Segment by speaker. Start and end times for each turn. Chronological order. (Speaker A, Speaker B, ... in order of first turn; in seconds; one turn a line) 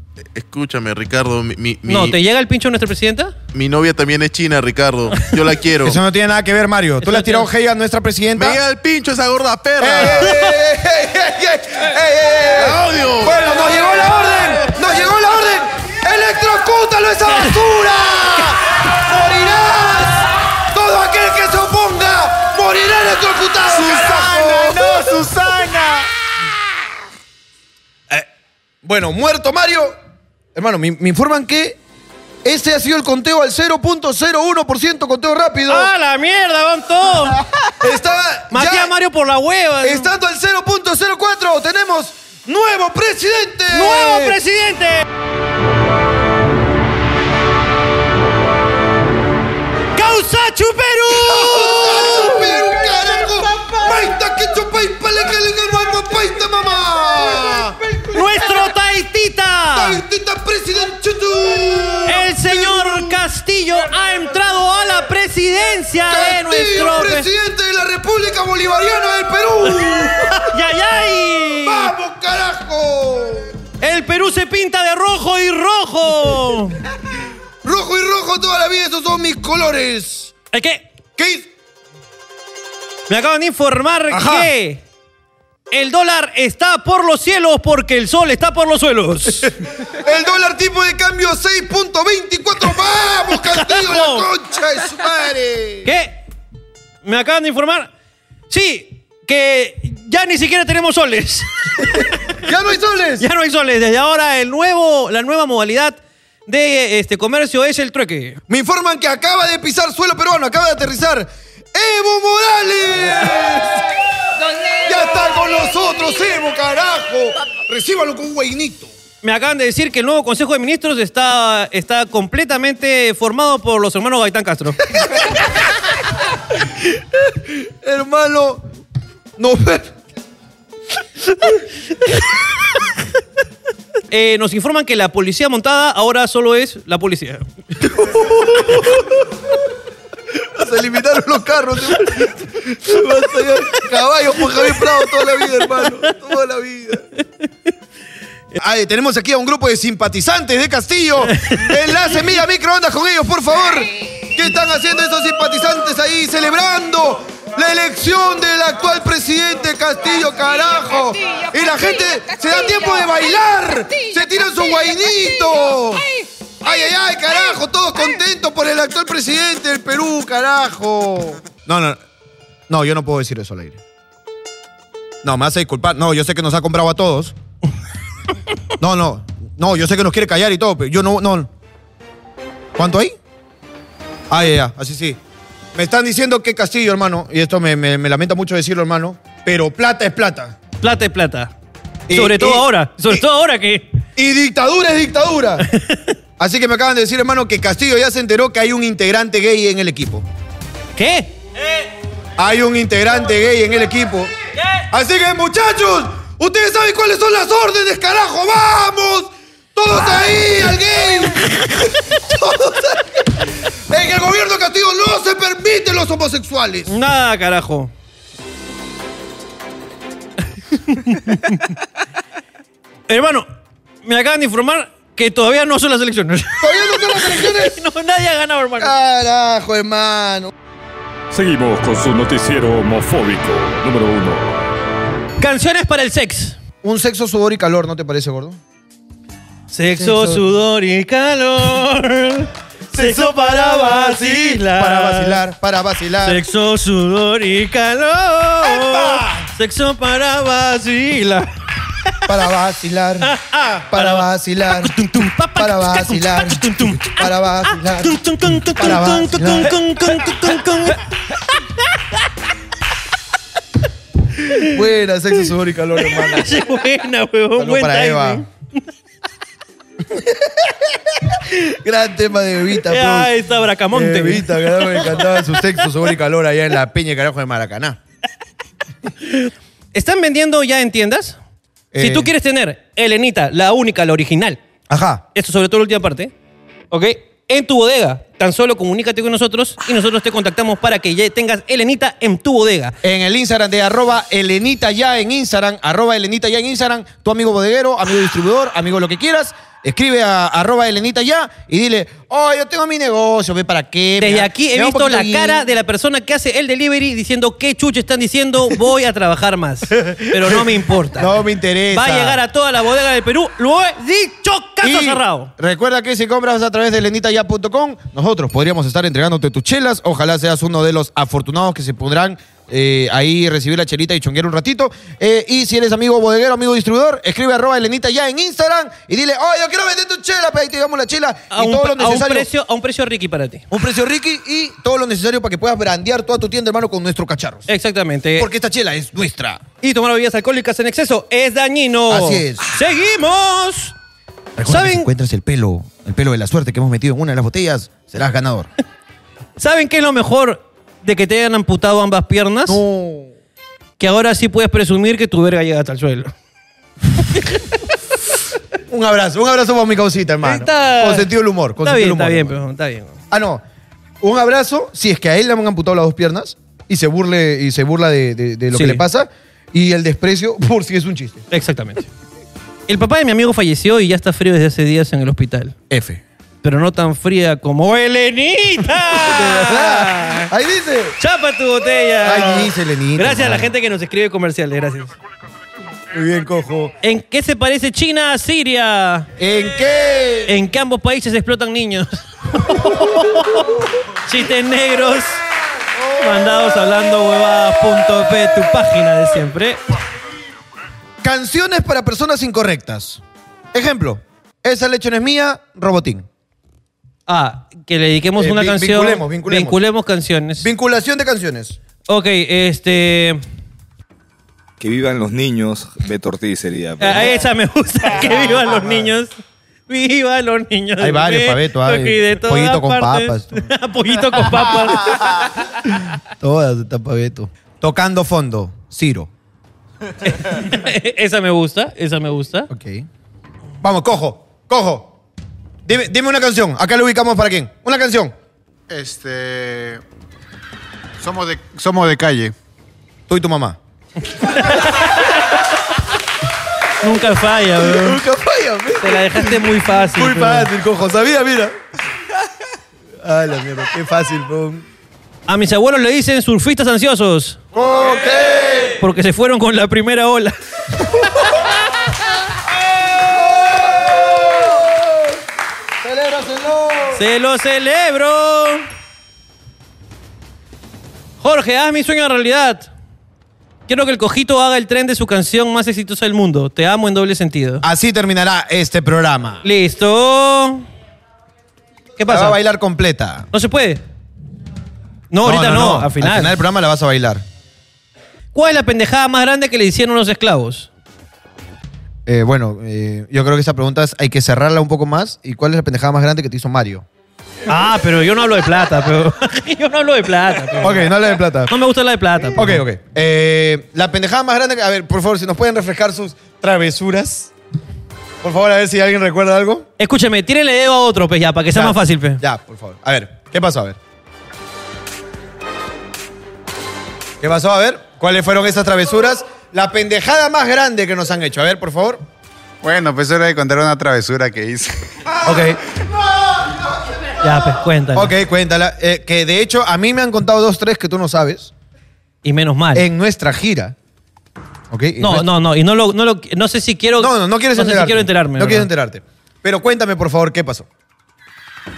Speaker A: 0.3-2.2
Speaker B: 1.9-3.3
Speaker A: 3.5-6.0
Speaker C: 5.8-8.6
Speaker B: 7.0-7.5
Speaker A: 8.3-10.3
Speaker C: 9.8-26.0
Speaker B: 10.0-10.6
Speaker A: 12.5-13.4
Speaker C: 28.8-29.9
Speaker C: 30.6-31.8
Speaker C: 32.4-35.9
Speaker B: 35.7-37.4
Speaker C: 37.8-38.9
Speaker B: 38.5-40.1
Speaker C: 39.8-44.4
Speaker B: 43.7-45.1
Speaker B: 50.0-52.4
Speaker C: 51.1-57.8
Speaker B: 58.1-60.0
Speaker C: 59.7-63.2
Speaker B: 62.1-67.3
Speaker C: 66.1-70.6
Speaker B: 69.8-71.9
Speaker C: 71.6-73.5
Speaker B: 73.8-76.8
Speaker C: 77.6-80.3
Speaker B: 80.5-80.8
Speaker C: 81.2-81.5
Speaker B: 83.1-84.8
Speaker C: 84.1-84.5
Speaker B: 85.7-89.5
Speaker C: 89.9-95.9
Speaker B: 93.4-94.3
Speaker B: 95.8-96.2
Speaker B: 97.0-97.9
Speaker B: 98.5-102.1
Speaker C: 102.4-103.3
Speaker B: 103.2-108.4
Speaker C: 108.5-113.9
Speaker C: 114.8-118.9
Speaker B: 119.2-124.8
Speaker C: 125.0-125.4
Speaker C: 127.3-128.7
Speaker C: 129.4-129.9
Speaker B: 134.1-137.4
Speaker C: 137.8-139.2
Speaker C: 140.3-147.1
Speaker C: 148.6-166.1
Speaker B: 151.3-151.8
Speaker C: 166.6-172.0
Speaker C: 172.7-173.8
Speaker C: 175.2-177.4
Speaker C: 178.8-181.5
Speaker C: 182.8-183.2
Speaker C: 184.3-185.2
Speaker C: 185.8-190.6
Speaker B: 190.8-191.5
Speaker C: 192.1-193.2
Speaker B: 192.1-193.9
Speaker C: 194.2-195.7
Speaker B: 195.7-196.1
Speaker C: 196.4-200.3
Speaker B: 201.0-201.3
Speaker C: 202.4-204.3
Speaker C: 204.9-216.9
Speaker B: 216.9-217.9
Speaker B: 220.7-221.8
Speaker B: 223.1-223.5
Speaker B: 224.0-228.9
Speaker C: 226.6-227.8
Speaker C: 228.8-230.5
Speaker D: 231.3-234.7
Speaker B: 235.4-236.6
Speaker C: 236.8-238.6
Speaker B: 239.7-245.4
Speaker C: 239.9-240.4
Speaker C: 242.9-246.4
Speaker B: 246.2-251.5
Speaker C: 248.6-249.5
Speaker C: 252.3-253.3
Speaker B: 253.2-261.1
Speaker C: 253.9-255.0
Speaker C: 255.6-259.8
Speaker B: 264.4-264.7
Speaker C: 264.6-266.6
Speaker B: 266.1-268.5
Speaker C: 267.6-268.4
Speaker C: 270.1-273.3
Speaker B: 272.9-275.6
Speaker C: 273.9-278.0
Speaker B: 279.2-281.4
Speaker C: 281.9-282.3
Speaker B: 282.0-284.6
Speaker C: 284.9-285.2
Speaker B: 285.4-286.3
Speaker B: 286.9-292.9
Speaker C: 293.0-305.6
Speaker B: 304.2-311.3
Speaker C: 310.0-312.4
Speaker B: 311.9-315.5
Speaker C: 314.8-332.5
Speaker B: 331.5-333.6
Speaker C: 333.7-337.7
Speaker B: 337.7-338.5
Speaker C: 338.4-339.6
Speaker B: 339.8-343.9
Speaker C: 342.1-342.8
Speaker C: 344.6-348.7
Speaker B: 344.7-345.1
Speaker B: 349.6-352.8
Speaker C: 352.7-353.3
Speaker B: 354.0-356.3
Speaker C: 358.9-362.6
Speaker B: 360.4-363.2
Speaker C: 363.3-363.6
Speaker C: 364.2-371.4
Speaker B: 368.7-369.0
Speaker B: 371.5-372.1
Speaker B: 372.9-375.8
Speaker C: 375.9-376.2
Speaker B: 376.6-380.5
Speaker C: 379.1-381.2
Speaker B: 381.2-385.1
Speaker C: 382.2-383.7
Speaker C: 386.1-386.9
Speaker B: 387.0-389.3
Speaker C: 389.4-390.6
Speaker B: 390.5-395.4
Speaker B: 396.1-399.8
Speaker C: 401.2-403.2
Speaker C: 403.7-406.3
Speaker B: 407.3-410.7
Speaker C: 408.4-409.8
Speaker C: 410.6-411.8
Speaker B: 412.1-413.4
Speaker E: 414.8-417.4
Speaker B: 417.0-419.3
Speaker B: 419.9-425.4
Speaker C: 421.0-423.7
Speaker C: 424.3-429.3
Speaker B: 430.3-432.7
Speaker C: 432.7-433.1
Speaker C: 433.8-435.1
Speaker C: 435.9-438.3
Speaker F: 438.9-440.0
Speaker F: 441.2-442.5
Speaker C: 443.3-443.8
Speaker B: 444.3-445.6
Speaker B: 447.0-448.2
Speaker C: 447.8-451.8
Speaker B: 449.0-450.7
Speaker C: 453.2-454.9
Speaker B: 455.5-457.6
Speaker C: 457.7-459.0
Speaker B: 459.0-461.8
Speaker C: 462.9-465.3
Speaker C: 466.0-467.2
Speaker B: 467.1-468.9
Speaker B: 471.4-472.9
Speaker B: 473.9-477.8
Speaker C: 477.8-479.6
Speaker B: 479.6-480.9
Speaker B: 482.2-482.6
Speaker C: 482.3-483.5
Speaker B: 483.5-484.0
Speaker B: 485.3-486.6
Speaker C: 485.4-487.4
Speaker B: 488.5-490.9
Speaker C: 492.3-497.1
Speaker B: 497.7-501.1
Speaker C: 500.8-501.7
Speaker B: 501.7-502.8
Speaker C: 502.6-507.5
Speaker C: 508.4-509.9
Speaker B: 510.0-512.4
Speaker C: 511.7-514.0
Speaker C: 517.4-522.2
Speaker F: 522.8-525.0
Speaker C: 525.4-525.8
Speaker B: 527.4-528.3
Speaker C: 528.1-531.7
Speaker B: 532.4-533.1
Speaker C: 532.9-534.0
Speaker C: 534.9-535.5
Speaker B: 535.2-538.9
Speaker C: 537.2-540.9